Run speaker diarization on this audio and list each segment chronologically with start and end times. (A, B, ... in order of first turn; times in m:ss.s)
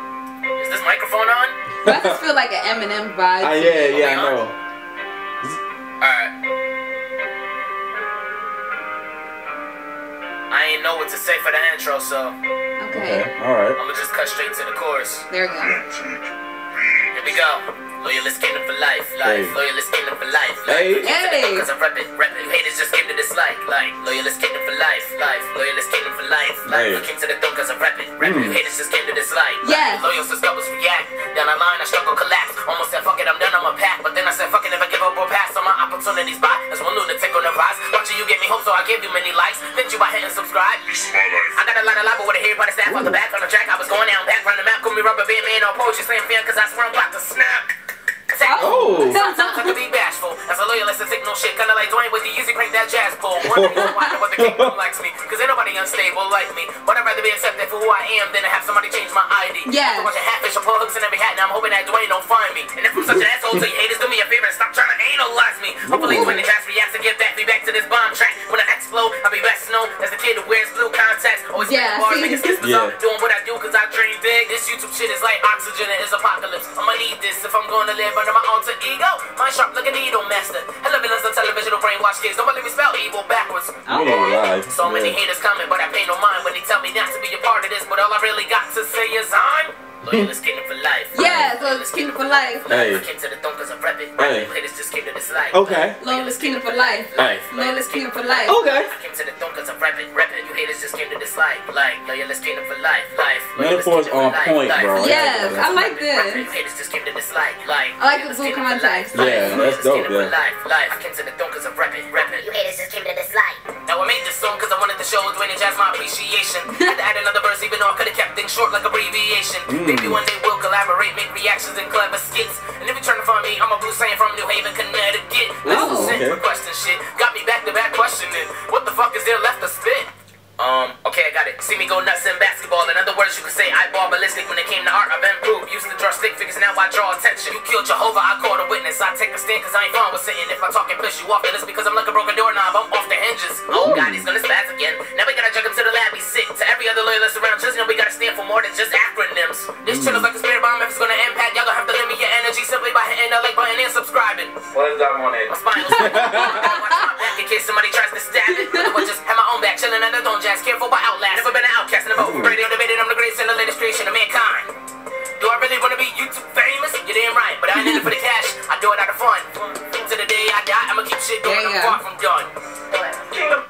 0:00.6-0:01.6 A
0:01.8-0:04.0 B
0:01.9-0:02.2 C
0:03.4-0:04.6 C
0:03.9-0:04.4 A
0:06.0-0:06.3 A
0:10.5-0:12.4 A
0:12.8-0:13.3 B
0:12.9-0:13.8 C
0:13.8-0:15.2 A
0:15.3-0:15.8 B
0:17.1-0:47.7 A
0:19.2-0:19.6 C
0:20.7-0:21.2 C
0:21.0-0:21.7 B
0:26.7-0:27.1 C
0:28.2-0:28.6 C
0:29.6-0:30.1 B
0:42.9-0:43.2 C
0:48.3-1:45.0 A
0:48.4-0:49.8 B
0:48.6-0:49.2 C
0:53.4-0:54.7 C
0:53.6-0:54.2 B
0:59.6-1:00.1 B
1:03.0-1:03.7 C
1:05.8-1:06.4 C
1:06.0-1:06.4 B
1:11.6-1:12.7 B
1:12.6-1:13.0 C
1:23.9-1:24.5 B
1:23.9-1:25.2 C
1:31.1-1:32.7 B
1:31.2-1:31.5 C
1:32.7-1:33.0 C
1:34.2-1:34.5 C
1:35.5-1:36.0 C
1:36.0-1:38.6 B
1:37.2-1:37.5 C
1:38.4-1:38.9 C
1:43.5-1:46.0 C
1:44.9-1:46.5 B
1:45.8-1:52.5 A
1:48.0-1:49.6 B
1:49.1-1:50.3 C
1:52.2-1:53.6 D
1:53.7-2:34.6 A
1:56.7-1:57.0 B
1:59.7-2:00.2 C
2:05.6-2:06.4 C
2:05.7-2:06.2 B
2:23.7-2:24.3 C
2:29.8-2:30.3 C
2:34.7-2:36.8 C
2:35.5-2:44.7 A
2:35.8-2:37.2 B
2:38.5-2:39.1 B
2:42.2-2:42.6 C
2:45.4-2:52.5 A
2:47.7-2:48.1 B
2:51.4-2:52.0 B
2:52.9-2:53.5 D